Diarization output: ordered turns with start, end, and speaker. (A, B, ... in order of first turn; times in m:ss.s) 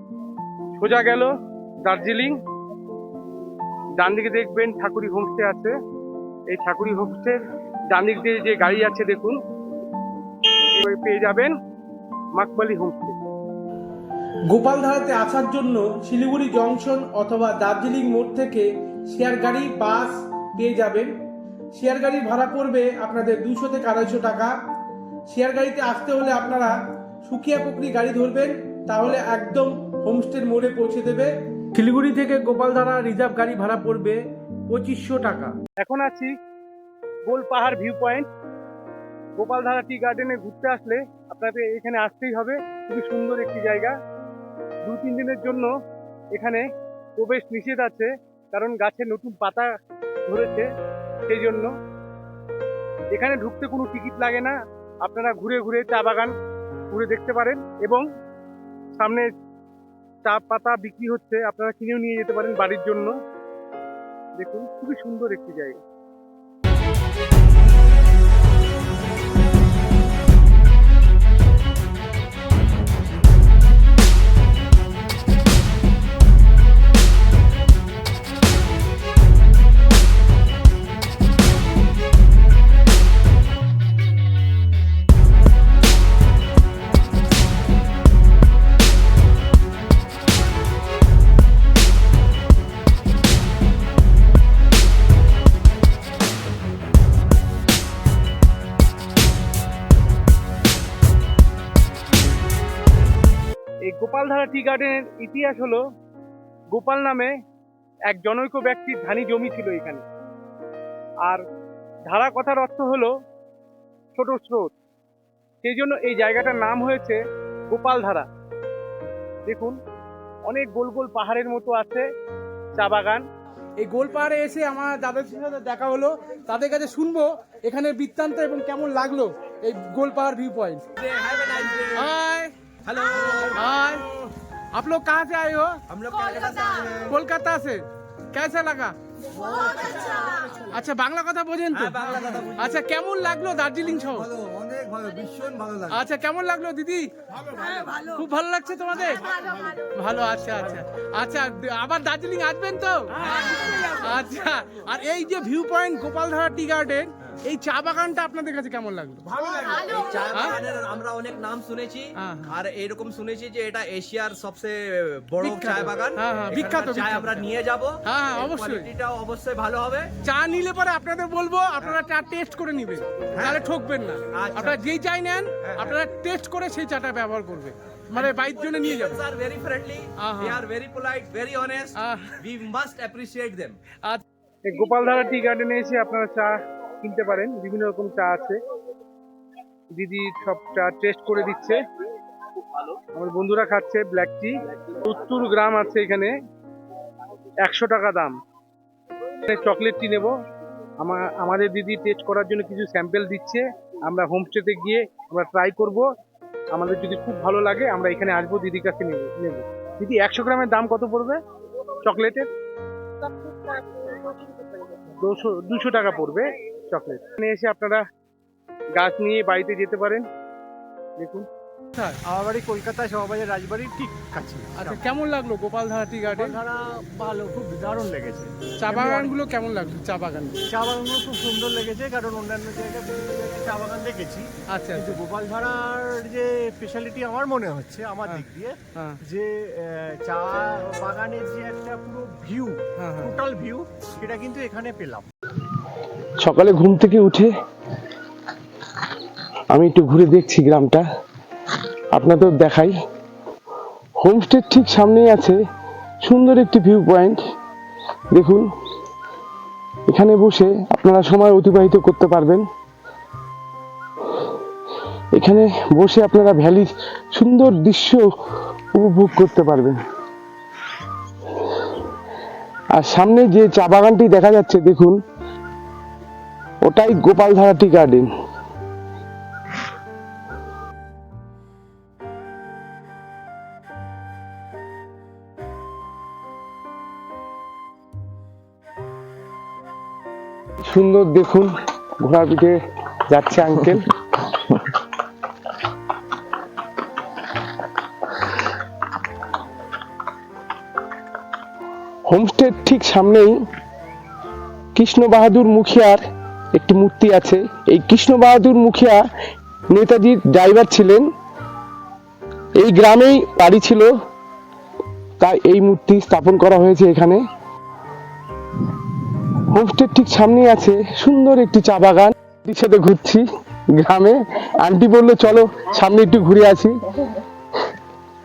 0:00.8-0:01.3 A
0:01.8-0:02.4 A
0:04.0-0:05.7 A
0:06.5-0:07.4 A
0:07.9-0:09.4 A
0:10.8-0:11.5 A
0:12.4-0:13.2 A
0:14.5-0:21.1 B
0:21.7-0:24.5 B
0:25.3-0:26.7 B
0:27.2-0:35.5 B
0:35.8-0:36.3 A
0:37.2-0:38.3 A
0:39.4-0:43.9 A
0:44.8-0:45.7 A
0:46.3-0:46.6 A
0:47.2-0:49.7 A
0:50.3-0:50.7 A
0:51.3-0:51.7 A
0:53.1-0:56.3 A
0:56.9-0:58.0 A
0:59.0-0:59.3 A
1:00.2-1:03.1 A
1:04.4-1:05.8 A
1:43.8-1:45.8 A
1:46.7-1:47.3 A
1:48.1-1:50.0 A
1:52.1-1:53.1 A
1:54.2-1:54.7 A
1:55.6-1:57.2 A
1:57.7-1:58.3 A
1:59.5-1:59.8 A
2:00.4-2:02.0 A
2:02.8-2:03.2 A
2:03.8-2:10.8 B
2:11.0-2:12.1 C
2:12.0-2:12.5 B
2:12.8-2:13.7 C
2:13.4-2:14.1 B
2:14.7-2:15.8 B
2:15.9-2:17.2 C
2:17.0-2:17.8 B
2:18.3-2:18.9 B
2:19.5-2:20.4 C
2:20.6-2:24.3 B
2:21.7-2:22.7 C
2:25.7-2:27.1 B
2:27.7-2:39.2 B
2:33.2-2:34.0 C
2:39.5-2:50.1 C
2:40.3-2:40.6 B
2:42.2-2:42.5 B
2:45.4-2:47.5 B
2:48.0-2:48.9 B
2:50.2-2:59.2 B
2:54.3-2:54.8 C
2:55.6-2:55.9 C
2:58.1-3:03.8 C
3:00.2-3:00.6 B
3:02.0-3:02.4 B
3:04.6-3:08.6 A
3:10.0-3:11.8 A
3:13.2-3:16.3 A
3:17.6-3:18.4 A
3:19.4-3:20.3 A
3:21.0-3:26.1 A
3:26.7-3:31.4 A
3:32.0-3:32.5 A
3:35.0-3:38.0 A
3:39.0-3:40.2 A
3:41.2-3:41.5 A
3:42.3-3:45.1 D
3:44.8-3:46.6 B
3:46.3-3:49.3 D
3:48.8-3:50.6 B
3:50.7-4:05.3 D
3:54.7-3:55.2 B
3:58.3-3:59.2 B
4:03.0-4:03.3 B
4:06.4-4:07.5 E
4:09.7-4:11.0 E
4:12.1-4:12.8 E
4:14.2-4:15.6 E
4:16.2-4:17.4 E
4:18.3-4:18.7 E
4:20.1-4:22.6 E
4:25.3-4:28.3 E
4:28.9-4:30.0 E
4:32.9-4:35.2 E
4:36.8-4:38.3 E
4:50.8-4:54.1 E
5:02.2-5:03.6 E
5:04.9-5:09.3 E
5:09.9-5:11.3 E
5:12.8-5:14.2 E
5:15.4-5:17.4 E
5:19.7-5:26.9 E